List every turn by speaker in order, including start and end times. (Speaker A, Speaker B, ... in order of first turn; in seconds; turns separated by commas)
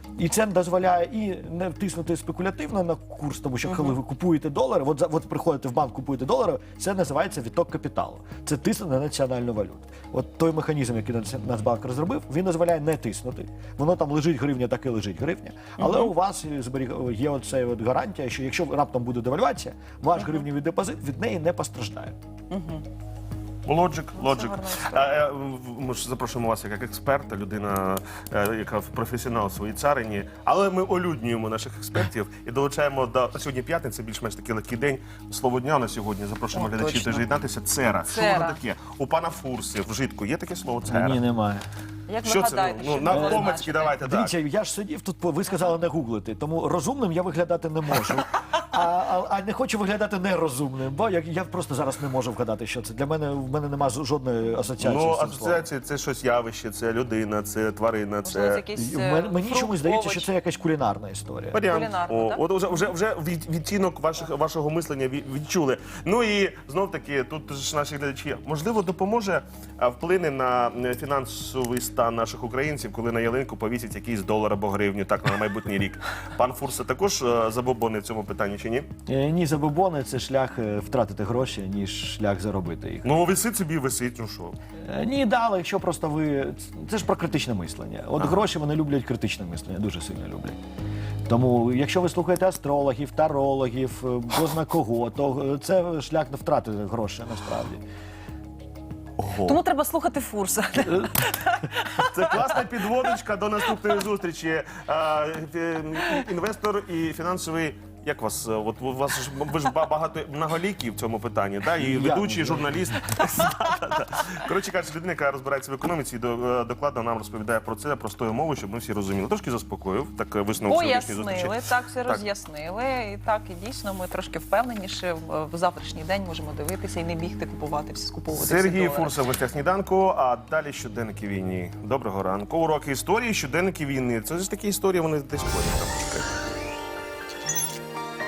Speaker A: 0.1-22.2, Speaker B: 15.8-16.1, Speaker B: 22.5-22.8, Speaker C: 23.6-41.2, Speaker B: 24.2-25.1, Speaker B: 36.5-37.2, Speaker B: 38.0-38.6, Speaker A: 40.9-41.6, Speaker B: 42.1-43.9, Speaker C: 42.2-44.3, Speaker A: 43.1-55.6, Speaker C: 54.8-58.6, Speaker B: 58.2-60.3, Speaker A: 58.7-61.6, Speaker C: 61.5-78.9, Speaker B: 61.6-62.8, Speaker A: 79.1-83.1, Speaker C: 83.0-84.6, Speaker A: 84.8-90.6, Speaker A: 91.3-97.8, Speaker C: 99.2-99.6, Speaker B: 99.4-102.4, Speaker C: 102.1-122.2, Speaker A: 111.8-113.0, Speaker B: 120.7-129.2, Speaker C: 128.3-136.3